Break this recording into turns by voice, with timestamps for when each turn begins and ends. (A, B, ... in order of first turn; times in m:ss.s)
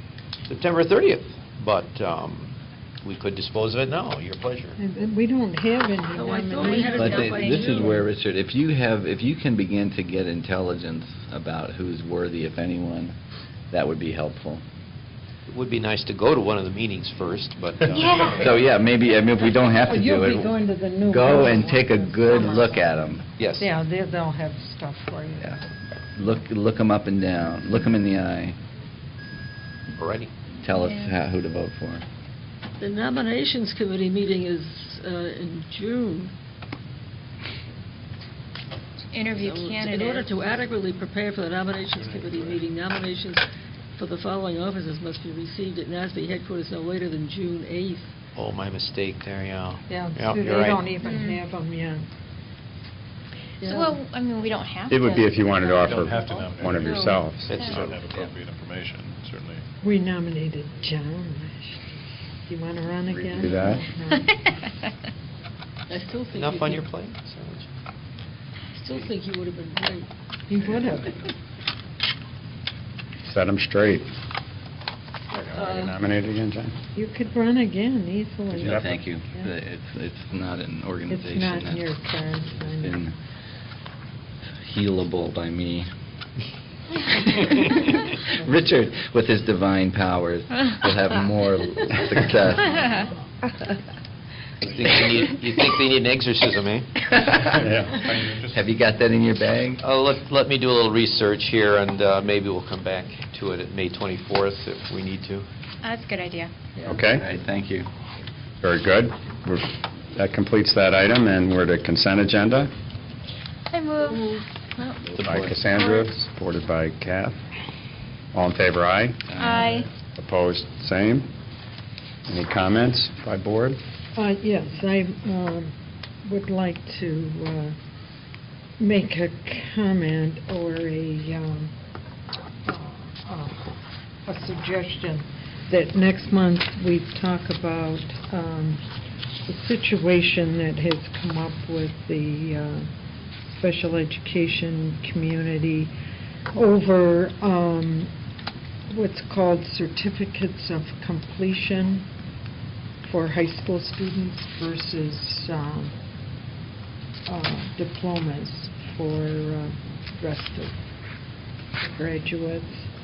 0:00.5-0:04.8 A
0:04.8-0:08.1 B
0:06.1-0:08.0 C
0:06.5-0:07.9 D
0:06.9-0:13.1 E
0:13.7-0:14.6 E
0:15.5-0:18.5 A
0:17.9-0:18.4 D
0:18.2-0:23.2 E
0:19.8-0:23.0 B
0:23.4-0:23.7 A
0:23.6-0:25.6 B
0:26.1-0:28.6 E
0:29.9-0:30.3 A
0:30.6-0:32.0 E
0:30.7-0:31.1 D
0:32.8-0:36.3 C
0:39.1-0:40.3 D
0:39.4-0:48.1 C
0:41.9-0:42.6 F
0:48.3-0:50.9 A
0:49.9-0:52.1 B
0:51.0-0:51.4 D
0:53.6-0:54.0 C
0:53.6-0:56.5 D
0:54.9-0:57.5 G
0:55.8-0:59.6 F
0:56.8-0:57.2 C
0:57.4-0:58.0 A
0:57.6-0:57.9 D
0:59.8-1:01.8 B
1:02.5-1:04.3 B
1:03.1-1:03.8 G
1:05.9-1:06.9 C
1:06.3-1:07.7 A
1:08.7-1:10.1 C
1:10.5-1:11.2 B
1:13.2-1:14.1 G
1:15.3-1:16.7 G
1:15.5-1:16.0 C
1:17.0-1:19.5 B
1:18.5-1:21.9 E
1:21.1-1:23.0 B
1:22.7-1:23.1 E
1:24.6-1:25.9 E
1:28.4-1:32.8 E
1:34.6-1:37.1 A
1:37.1-1:37.7 E
1:37.6-1:38.0 G
1:37.7-1:38.7 F
1:38.5-1:39.8 E
1:39.8-1:45.5 A
1:45.8-1:46.5 D
1:46.8-1:47.2 G
1:47.2-1:47.9 E
1:48.6-1:52.7 G
1:53.7-1:56.1 D
1:55.1-1:55.4 E
1:55.2-1:57.4 G
1:58.3-1:59.4 G
1:59.4-1:59.7 E
1:59.4-1:59.8 D
2:00.1-2:01.3 G
2:02.2-2:03.8 G
2:04.2-2:05.7 B
2:06.2-2:07.8 B
2:08.8-2:11.7 B
2:12.7-2:13.7 B
2:14.2-2:18.8 B
2:19.5-2:22.9 B
2:23.6-2:25.9 B
2:26.5-2:28.1 B
2:28.9-2:32.1 B
2:33.0-2:35.9 B
2:37.3-2:40.7 B
2:41.8-2:42.8 B